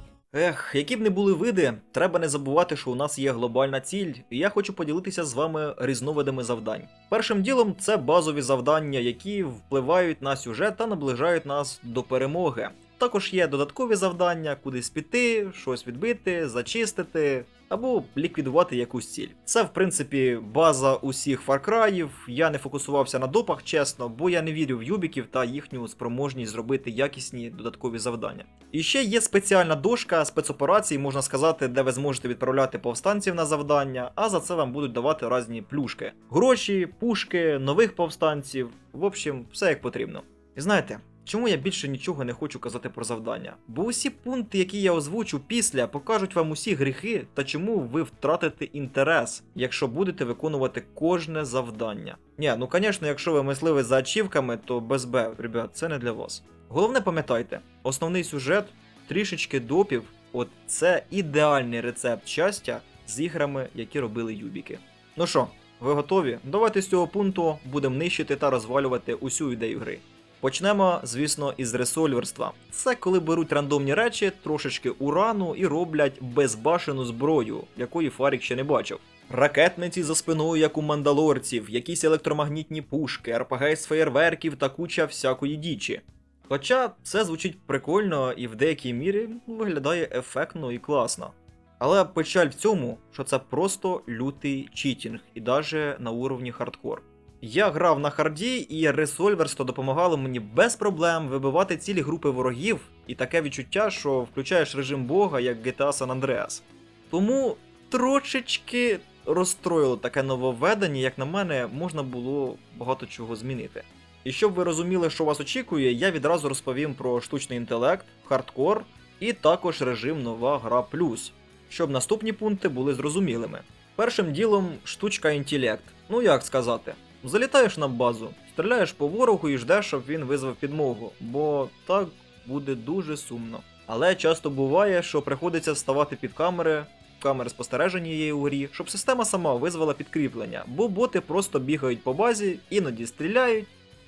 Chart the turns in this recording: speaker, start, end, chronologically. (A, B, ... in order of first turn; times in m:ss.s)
0:00.3-2:23.7 A